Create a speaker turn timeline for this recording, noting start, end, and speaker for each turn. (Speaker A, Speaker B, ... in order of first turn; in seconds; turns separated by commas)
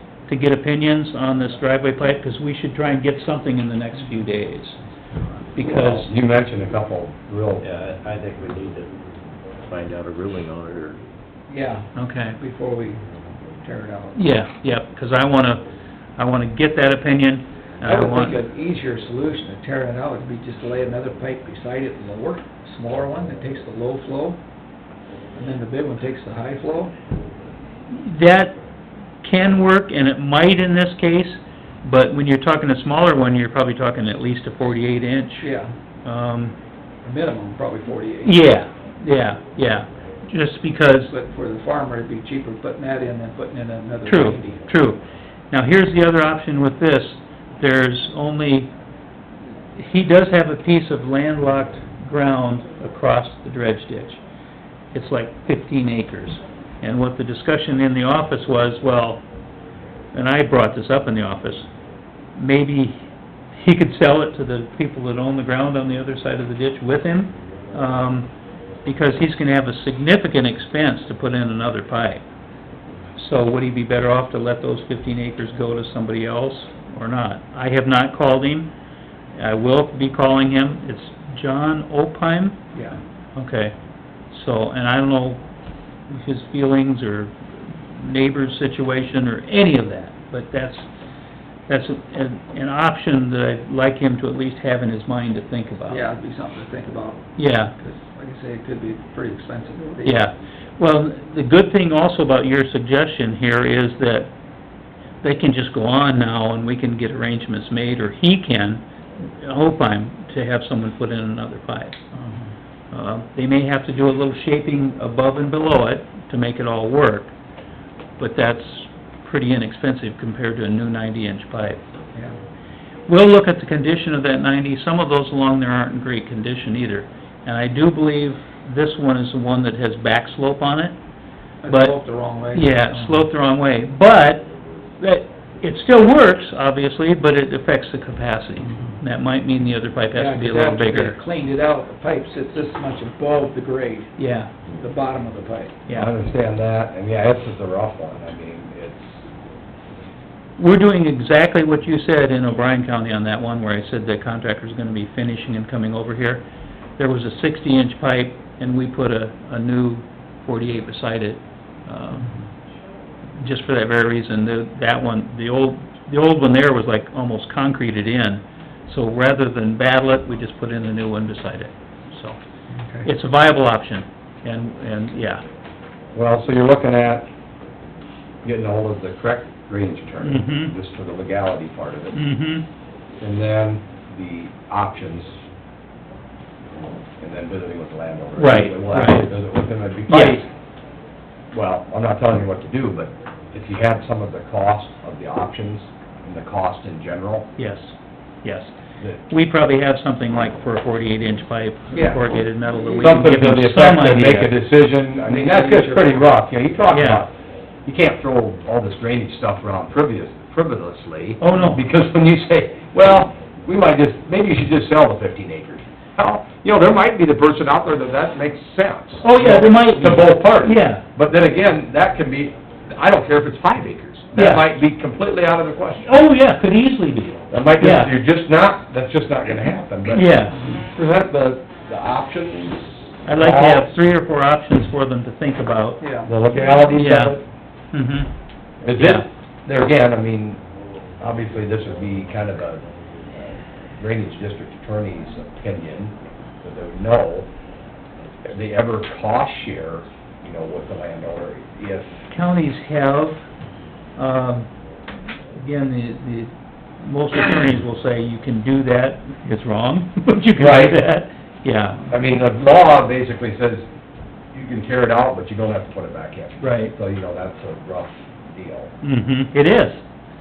Speaker A: 0.3-4.8, Speaker A: 5.5-6.1, Speaker B: 5.6-7.6, Speaker C: 7.6-8.9, Speaker C: 9.7-11.0, Speaker D: 11.5-13.0, Speaker A: 11.9-12.4, Speaker D: 13.6-14.2, Speaker A: 14.1-15.7, Speaker A: 16.2-18.4, Speaker D: 17.8-24.4, Speaker D: 25.3-26.9, Speaker A: 27.9-28.6, Speaker A: 29.2-35.5, Speaker D: 35.4-35.7, Speaker A: 36.0-36.5, Speaker D: 37.0-38.5, Speaker A: 38.2-41.1, Speaker D: 41.1-44.6, Speaker A: 44.0-48.7, Speaker A: 49.7-54.2, Speaker A: 54.9-59.2, Speaker A: 60.1-61.7, Speaker A: 62.4-63.0, Speaker A: 63.5-68.3, Speaker A: 68.8-72.2, Speaker A: 73.2-78.7, Speaker A: 79.3-82.7, Speaker A: 83.3-83.7, Speaker A: 84.3-85.4, Speaker A: 86.1-90.8, Speaker A: 91.7-96.0, Speaker D: 95.9-100.1, Speaker A: 97.4-97.7, Speaker A: 100.0-104.3, Speaker A: 105.2-112.0, Speaker D: 112.1-112.5, Speaker A: 112.9-117.3, Speaker A: 118.2-121.8, Speaker A: 123.1-130.9, Speaker D: 131.6-133.1, Speaker A: 131.7-131.9, Speaker A: 132.5-141.2, Speaker D: 140.1-144.2, Speaker A: 144.2-144.5, Speaker D: 144.8-145.8, Speaker B: 145.9-149.2, Speaker A: 150.6-156.4, Speaker A: 157.0-162.3, Speaker A: 163.4-172.4, Speaker D: 172.7-173.1, Speaker A: 173.0-175.4, Speaker B: 176.1-177.3, Speaker B: 178.4-182.2, Speaker A: 180.2-180.7, Speaker A: 182.1-182.7, Speaker B: 183.2-185.3, Speaker B: 187.2-190.5, Speaker A: 188.4-189.3, Speaker A: 190.1-190.4, Speaker B: 191.5-197.5, Speaker A: 197.6-198.7, Speaker A: 199.3-204.5, Speaker D: 201.9-203.3, Speaker B: 203.0-207.3, Speaker D: 205.3-206.2, Speaker A: 206.9-207.2, Speaker B: 207.8-226.1, Speaker A: 211.4-211.8, Speaker A: 219.2-221.0, Speaker A: 224.3-224.7, Speaker A: 226.0-228.1, Speaker B: 227.5-230.3, Speaker A: 230.1-230.6, Speaker B: 230.9-233.9, Speaker A: 233.2-236.0, Speaker D: 236.0-236.3, Speaker B: 236.2-237.4, Speaker A: 236.6-237.3, Speaker A: 237.9-238.3, Speaker B: 238.8-240.6, Speaker A: 238.9-239.3, Speaker B: 241.2-242.8, Speaker B: 243.3-247.5, Speaker B: 248.4-252.2, Speaker A: 252.3-253.4, Speaker A: 254.2-254.7, Speaker A: 255.6-262.0, Speaker B: 260.6-261.0, Speaker B: 262.1-263.9, Speaker B: 264.5-268.9, Speaker A: 266.6-266.9, Speaker A: 269.0-270.0